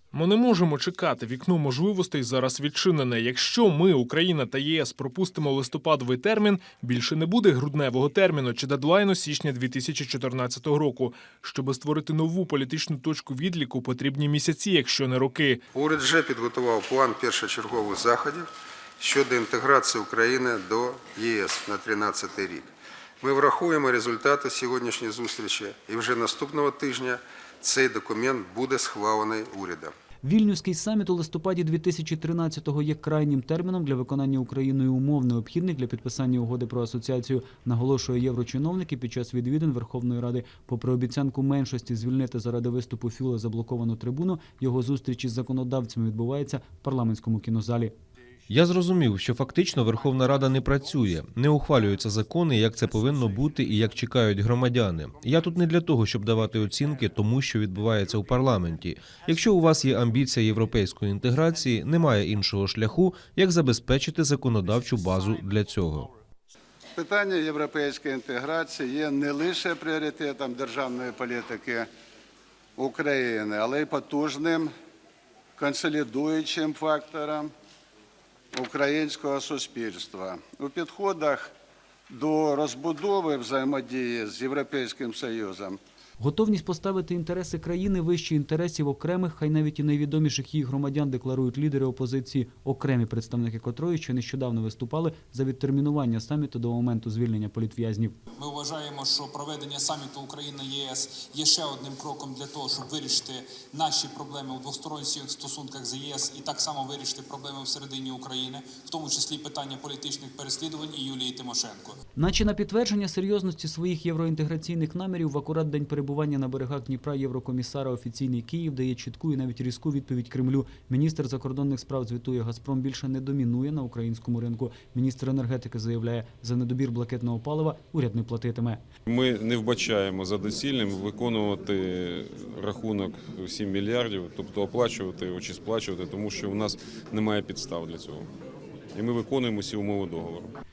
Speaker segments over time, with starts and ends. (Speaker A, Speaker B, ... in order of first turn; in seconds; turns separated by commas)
Speaker A: 0.1-15.6, Speaker B: 15.7-18.5, Speaker B: 19.0-22.7, Speaker B: 23.2-29.9, Speaker C: 30.2-47.9, Speaker D: 48.5-66.1, Speaker E: 67.0-71.9, Speaker E: 72.8-74.7, Speaker E: 75.6-77.5, Speaker E: 78.5-81.5, Speaker E: 82.1-85.8, Speaker C: 86.2-98.2, Speaker F: 98.3-112.0, Speaker C: 112.2-128.8, Speaker G: 129.1-138.3, Speaker G: 138.9-140.5